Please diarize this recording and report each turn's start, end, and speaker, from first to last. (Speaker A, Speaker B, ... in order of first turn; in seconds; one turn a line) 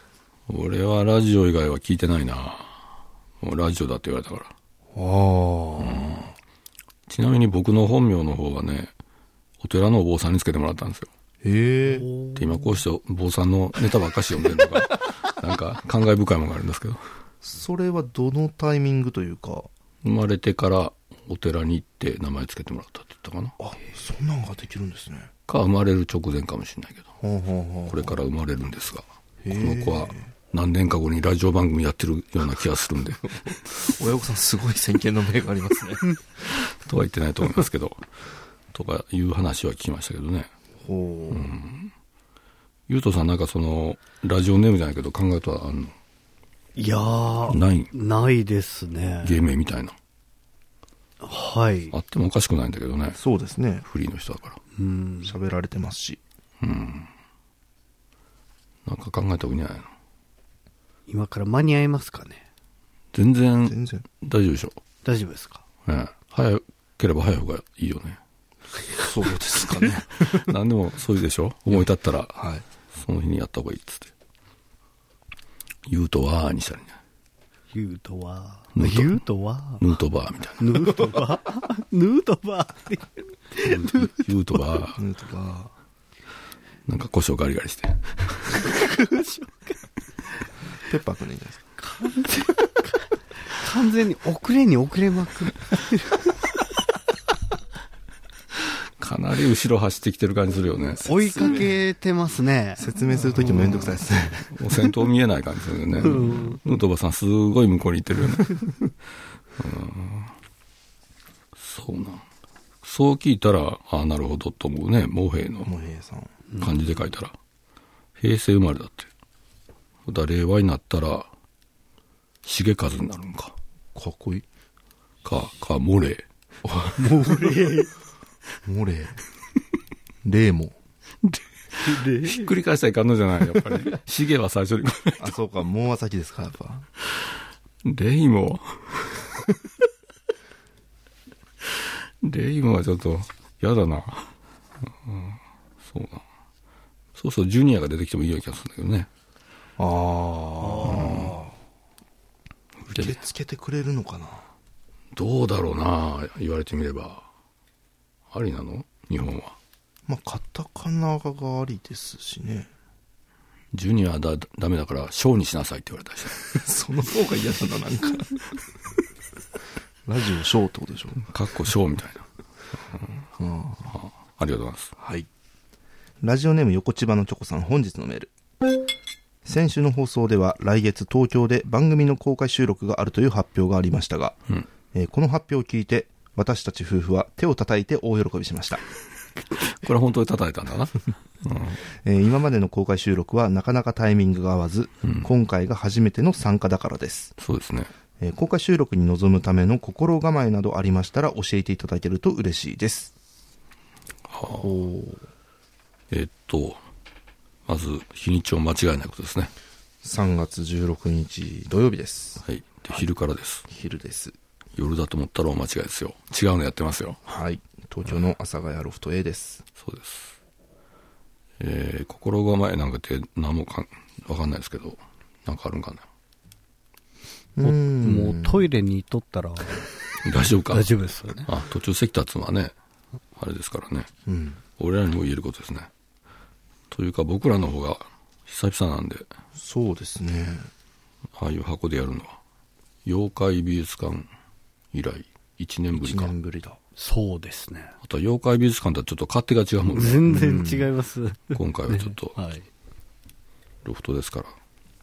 Speaker A: 0.5-2.8
Speaker A: 3.4-4.5
Speaker B: 4.9-6.2
Speaker A: 5.8-6.3
Speaker A: 7.1-8.9
Speaker A: 9.6-11.1
Speaker B: 11.4-12.1
Speaker C: 12.0-12.4
Speaker A: 12.3-17.0
Speaker B: 17.4-19.7
Speaker A: 20.0-23.6
Speaker B: 23.6-25.3
Speaker A: 25.5-27.1
Speaker B: 27.2-28.1
Speaker A: 27.9-33.5
Speaker B: 29.4-30.3
Speaker B: 33.7-36.0
Speaker A: 36.4-38.0
Speaker A: 38.7-40.5
Speaker B: 40.8-41.5
Speaker A: 41.3-41.9
Speaker A: 42.9-45.9
Speaker C: 46.8-49.4
Speaker A: 47.5-47.9
Speaker A: 49.2-49.9
Speaker C: 51.2-51.9
Speaker A: 51.9-53.2
Speaker B: 53.1-53.9
Speaker A: 53.9-54.6
Speaker C: 54.8-55.3
Speaker B: 55.2-56.2
Speaker A: 56.6-57.1
Speaker A: 58.9-59.9
Speaker C: 61.1-62.4
Speaker A: 63.1-64.8
Speaker B: 63.6-64.0
Speaker C: 65.0-65.6
Speaker A: 65.9-68.2
Speaker B: 69.0-70.4
Speaker A: 70.2-72.4
Speaker B: 72.3-72.6
Speaker A: 73.0-74.1
Speaker A: 75.9-77.0
Speaker C: 77.7-79.8
Speaker A: 78.8-79.2
Speaker A: 79.8-80.9
Speaker C: 80.6-84.2
Speaker A: 83.7-85.0
Speaker B: 84.9-85.7
Speaker A: 86.9-88.6
Speaker C: 88.8-89.7
Speaker B: 90.8-91.6
Speaker C: 91.8-96.2
Speaker A: 99.0-101.0
Speaker B: 101.0-101.7
Speaker C: 101.0-102.9
Speaker B: 102.8-104.5
Speaker A: 104.5-108.9
Speaker C: 106.0-106.6
Speaker A: 109.6-110.3
Speaker A: 111.6-112.2
Speaker A: 112.8-115.7
Speaker B: 115.6-116.3
Speaker A: 116.6-117.3
Speaker A: 118.2-119.1
Speaker A: 120.0-121.3
Speaker A: 122.4-123.5
Speaker B: 123.9-124.5
Speaker A: 125.2-126.2
Speaker B: 126.7-126.9
Speaker C: 127.0-127.9
Speaker B: 128.6-129.2
Speaker B: 130.2-130.8
Speaker C: 131.8-132.5
Speaker A: 132.0-135.3
Speaker B: 135.2-136.9
Speaker A: 137.8-139.3
Speaker A: 142.2-144.3
Speaker A: 144.8-146.2
Speaker A: 147.1-149.1
Speaker B: 149.8-151.5
Speaker A: 150.8-151.3
Speaker A: 152.8-153.1
Speaker B: 152.9-154.5
Speaker A: 155.1-157.3
Speaker A: 158.3-159.6
Speaker B: 160.1-162.7
Speaker A: 163.7-166.5
Speaker B: 166.5-168.4
Speaker B: 170.1-171.2
Speaker A: 171.3-172.2
Speaker B: 173.4-173.9
Speaker A: 173.9-174.9
Speaker B: 175.0-175.3
Speaker B: 176.2-178.3
Speaker B: 179.4-184.4
Speaker B: 184.9-188.8
Speaker A: 189.6-191.8
Speaker B: 192.0-197.3
Speaker A: 195.0-195.3
Speaker A: 197.4-197.9
Speaker B: 198.2-203.1
Speaker A: 204.3-204.7
Speaker B: 204.5-205.2
Speaker A: 206.1-206.8
Speaker A: 207.7-209.5
Speaker B: 210.0-213.0
Speaker A: 212.4-213.6
Speaker B: 213.7-214.3
Speaker A: 214.8-217.2
Speaker B: 217.2-219.6
Speaker A: 219.8-220.3
Speaker A: 221.6-226.0
Speaker B: 227.6-228.7
Speaker C: 227.6-229.9
Speaker A: 230.2-230.9
Speaker C: 230.7-231.5
Speaker A: 231.4-232.7
Speaker A: 233.4-234.1
Speaker B: 234.2-234.6
Speaker A: 234.8-235.9
Speaker A: 236.9-239.3
Speaker B: 239.6-240.7
Speaker A: 241.3-242.4
Speaker A: 243.0-244.3
Speaker A: 244.9-246.3
Speaker B: 245.9-246.8
Speaker C: 247.0-247.9
Speaker A: 248.0-250.3
Speaker C: 249.9-252.6
Speaker B: 250.3-250.9
Speaker A: 251.5-252.4
Speaker A: 253.8-254.6